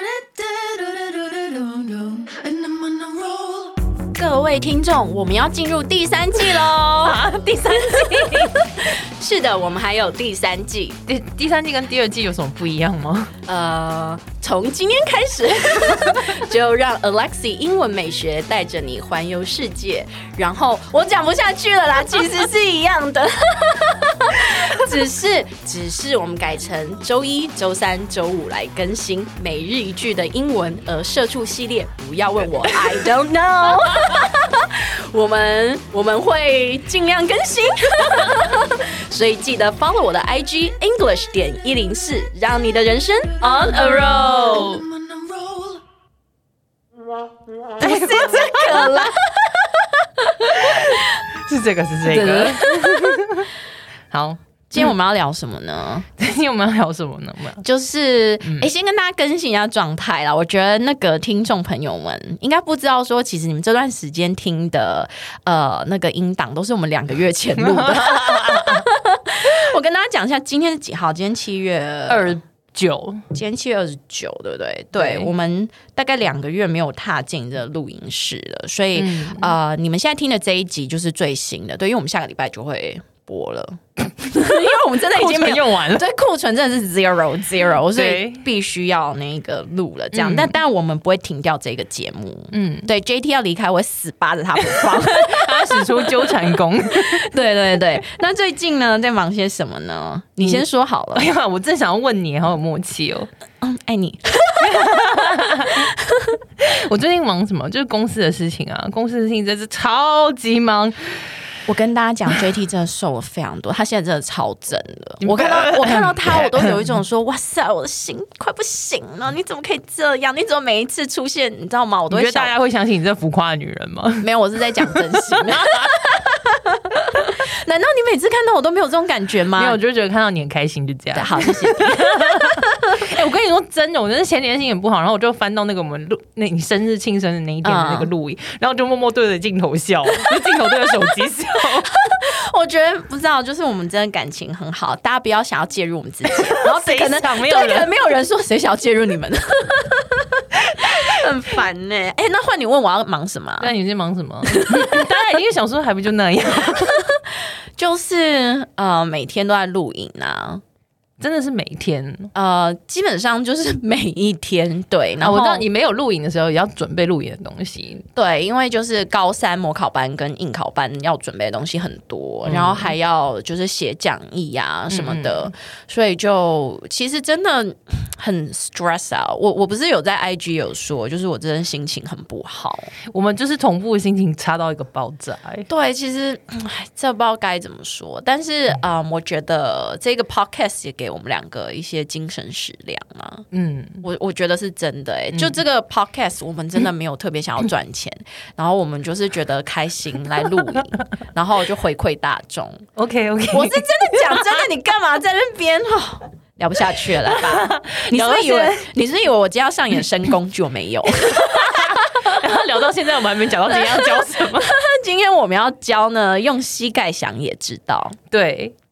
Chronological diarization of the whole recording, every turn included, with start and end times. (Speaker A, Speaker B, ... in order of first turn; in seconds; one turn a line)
Speaker A: 0.5-1.0
Speaker A: 1.7-2.3
Speaker B: 4.1-11.0
Speaker A: 7.1-8.7
Speaker A: 11.1-13.3
Speaker B: 13.5-44.9
Speaker B: 47.8-51.1
Speaker A: 47.8-48.4
Speaker A: 50.8-53.5
Speaker B: 52.0-53.2
Speaker A: 54.1-54.4
Speaker B: 54.7-56.1
Speaker A: 56.2-57.6
Speaker B: 57.6-72.4
Speaker A: 58.4-58.7
Speaker A: 67.5-68.9
Speaker A: 72.1-73.2
Speaker B: 73.3-96.4
Speaker A: 74.9-75.3
Speaker A: 78.9-79.6
Speaker A: 85.0-86.0
Speaker A: 87.8-88.5
Speaker A: 90.1-90.5
Speaker A: 92.5-92.9
Speaker A: 94.6-97.2
Speaker B: 96.9-101.3
Speaker A: 100.4-103.3
Speaker B: 103.6-104.7
Speaker A: 104.6-105.9
Speaker A: 106.6-111.4
Speaker B: 111.7-122.5
Speaker A: 115.2-116.8
Speaker A: 122.1-125.9
Speaker B: 124.2-129.8
Speaker A: 129.5-141.9
Speaker B: 131.2-132.8
Speaker B: 137.6-138.1
Speaker B: 141.8-153.7
Speaker A: 146.4-147.9
Speaker A: 153.6-157.0
Speaker B: 154.5-155.0
Speaker B: 156.8-157.2
Speaker B: 157.8-160.6
Speaker A: 161.2-162.3
Speaker B: 162.3-165.7
Speaker A: 165.2-168.1
Speaker B: 168.2-182.9
Speaker A: 172.5-172.9
Speaker A: 174.9-175.5
Speaker A: 183.1-185.7
Speaker B: 185.7-193.5
Speaker A: 193.5-194.0
Speaker B: 194.0-202.8
Speaker A: 195.3-195.6
Speaker A: 203.0-204.6
Speaker B: 203.5-212.3
Speaker A: 207.3-208.9
Speaker A: 211.2-214.7
Speaker B: 213.7-218.2
Speaker A: 218.3-218.8